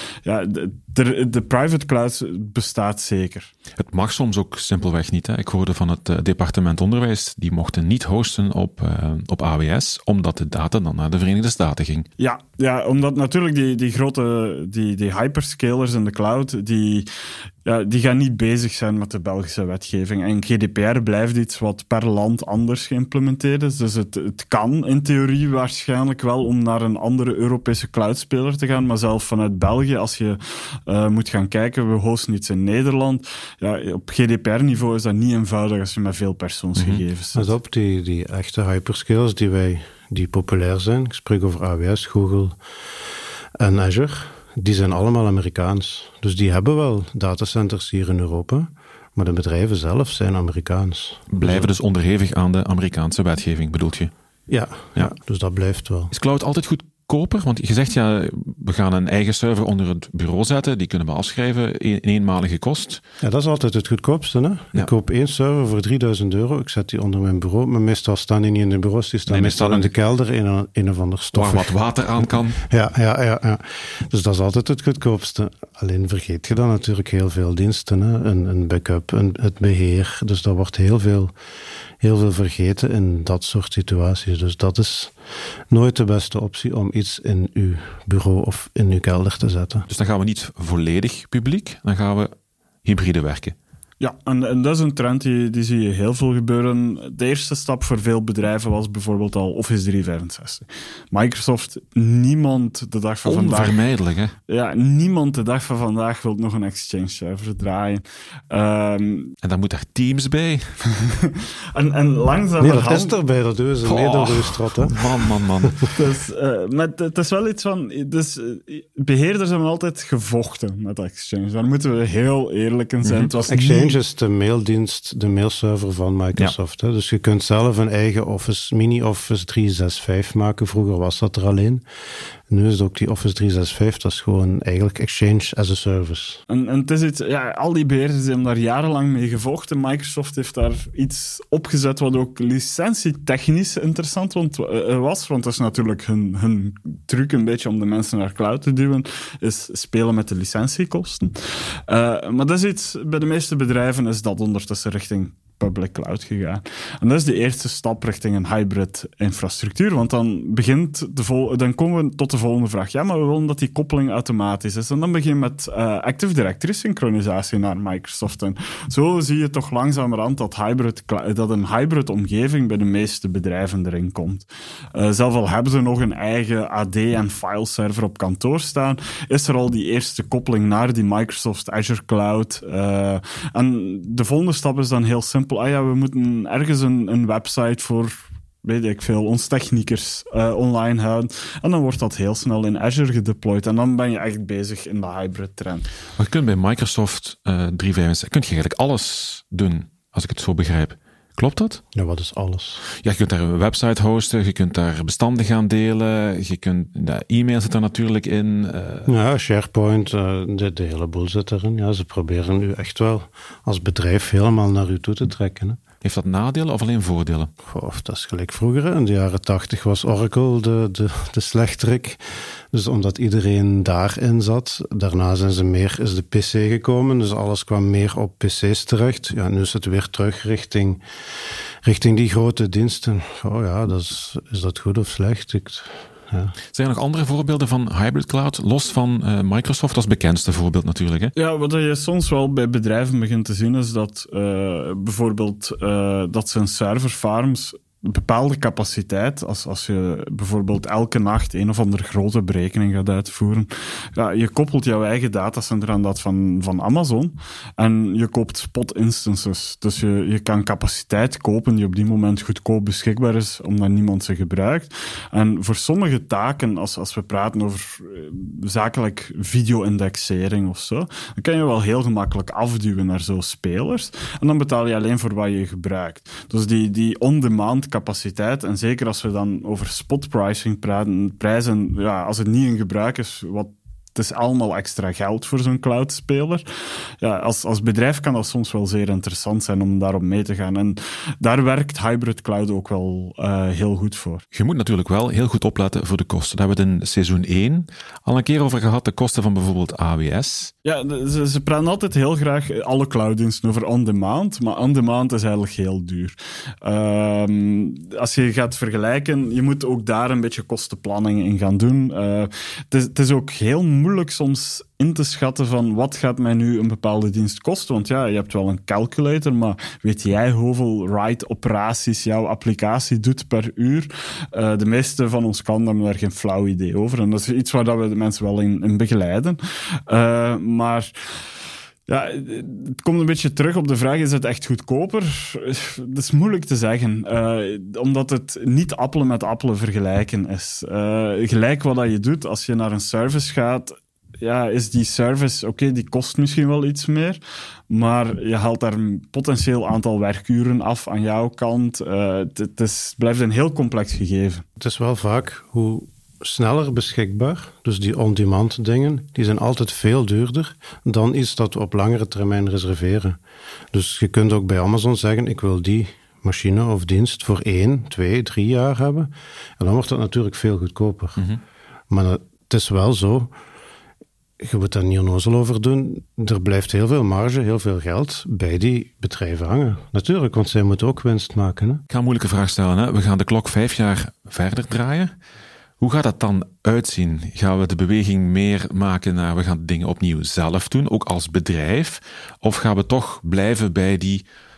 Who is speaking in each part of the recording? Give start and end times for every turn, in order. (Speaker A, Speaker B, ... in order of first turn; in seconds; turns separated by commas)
Speaker A: 0.2-3.5, Speaker B: 3.8-12.1, Speaker A: 12.2-17.1, Speaker A: 17.6-37.5, Speaker B: 36.8-37.0, Speaker C: 37.3-42.6, Speaker C: 43.6-51.7, Speaker B: 51.3-54.1, Speaker C: 54.5-56.1, Speaker B: 56.1-63.0, Speaker C: 63.2-71.7, Speaker B: 69.3-69.9, Speaker B: 71.3-72.6, Speaker C: 72.6-81.3, Speaker C: 82.0-85.1, Speaker C: 85.7-89.8, Speaker B: 89.9-92.3, Speaker B: 92.8-93.5, Speaker A: 94.0-103.8, Speaker B: 103.2-104.3, Speaker A: 104.5-109.3, Speaker B: 109.4-110.8, Speaker A: 111.0-113.1, Speaker C: 112.6-115.0, Speaker B: 113.8-115.9, Speaker A: 115.9-124.0, Speaker B: 123.0-123.3, Speaker C: 123.5-131.8, Speaker C: 132.5-136.4, Speaker A: 136.5-195.9, Speaker B: 196.2-201.8, Speaker C: 201.9-202.8, Speaker B: 202.9-209.1, Speaker C: 209.1-215.8, Speaker B: 216.0-217.5, Speaker C: 217.6-222.2, Speaker C: 222.7-231.0, Speaker C: 231.8-236.5, Speaker B: 236.7-241.3, Speaker A: 241.3-286.6, Speaker A: 287.2-294.4, Speaker B: 294.5-300.7, Speaker A: 300.8-331.1, Speaker A: 332.1-354.6, Speaker C: 354.8-363.4, Speaker C: 363.9-371.4, Speaker C: 372.1-373.5, Speaker C: 374.6-382.0, Speaker B: 382.1-385.3, Speaker B: 386.0-394.4